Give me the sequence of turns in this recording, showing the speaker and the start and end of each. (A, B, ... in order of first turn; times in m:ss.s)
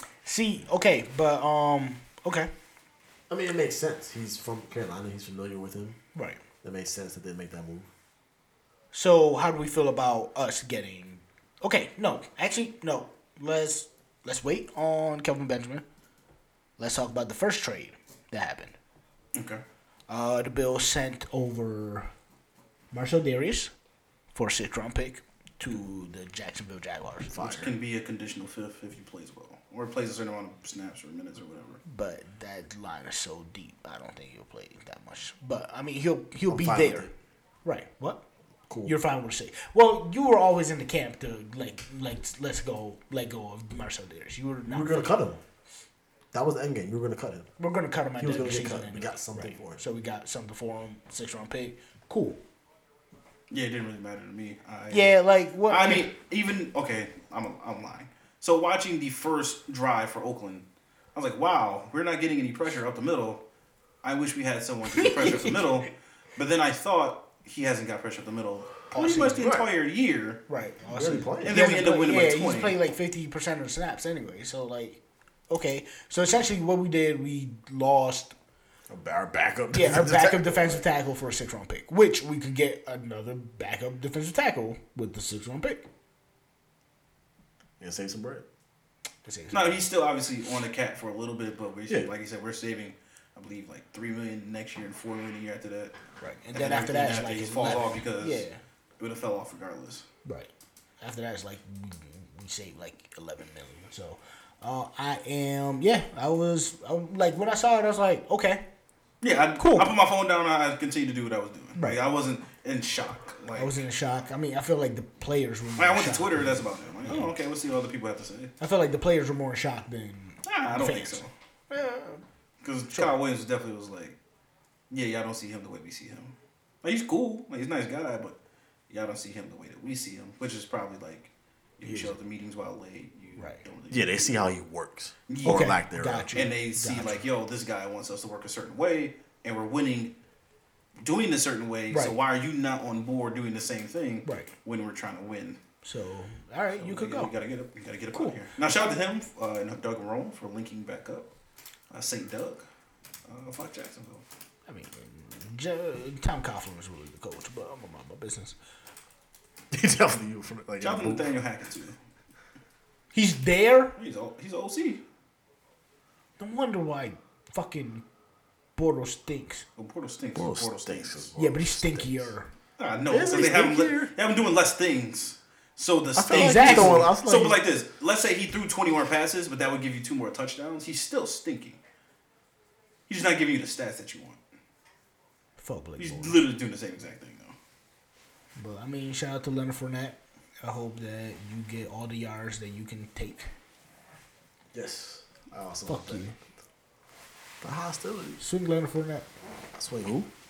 0:00.2-0:02.5 A
0:03.3-0:06.0 B
0:06.2-0:06.4 A
0:06.6-0:07.9 B
0:08.9-0:15.8 A
0:16.8-0:18.8 A
0:19.3-0:19.6 C
0:20.1-0:22.1 A
0:22.9-0:23.7 A
0:24.3-0:27.3 A
0:27.3-0:27.7 B
0:27.4-0:31.8 C
0:31.9-0:37.1 A
0:36.5-0:37.1 B
0:37.6-0:38.2 A
0:38.7-0:39.0 B
0:38.8-0:45.2 A
0:44.7-0:45.4 B
0:46.3-0:47.5 B
0:47.6-0:52.4 A
0:48.2-0:49.8 B
0:53.5-0:55.1 C
0:54.9-0:56.1 A
0:55.7-1:03.4 C
1:04.0-1:10.4 C
1:04.9-1:05.6 A
1:08.9-1:09.5 A
1:09.4-1:09.7 B
1:10.5-1:18.3 A
1:10.9-1:11.6 B
1:11.4-1:12.8 C
1:18.9-1:20.8 B
1:19.7-1:25.9 A
1:27.8-1:28.4 B
1:29.2-1:29.8 A
1:29.5-1:36.0 C
1:36.2-1:38.6 A
1:36.6-1:38.4 C
1:39.0-1:40.1 C
1:40.2-1:40.5 A
1:41.0-1:48.6 A
1:49.2-1:53.8 C
1:49.6-1:49.9 A
1:53.6-1:56.4 A
1:55.8-1:58.5 C
1:58.6-2:02.2 A
2:00.4-2:01.3 C
2:02.6-2:04.2 C
2:04.9-2:08.4 C
2:08.9-2:14.4 C
2:11.8-2:12.1 A
2:13.9-2:16.4 B
2:15.3-2:15.7 C
2:15.4-2:17.2 A
2:16.3-2:20.1 C
2:21.0-2:25.6 C
2:21.9-2:22.2 A
2:24.2-2:24.5 A
2:25.8-2:27.3 A
2:26.7-2:31.3 C
2:28.1-2:28.4 A
2:31.9-2:32.6 C
2:33.3-2:34.2 C
2:34.7-2:38.6 A
2:39.7-2:41.3 B
2:40.8-2:42.0 C
2:43.1-2:43.9 A
2:44.0-2:45.0 C
2:46.4-2:48.0 A
2:48.8-2:49.6 A
2:49.8-2:51.3 C
2:50.4-2:52.3 B
2:51.4-2:52.5 A
2:52.8-3:01.8 C
2:53.1-2:54.1 B
2:56.2-2:57.6 B
2:56.3-2:57.1 A
3:03.1-3:04.4 C
3:05.6-3:06.4 A
3:06.0-3:07.6 C
3:08.6-3:13.5 A
3:14.7-3:16.3 B
3:15.9-3:16.4 A
3:17.6-3:18.4 B
3:18.4-3:19.3 A
3:19.8-3:20.3 B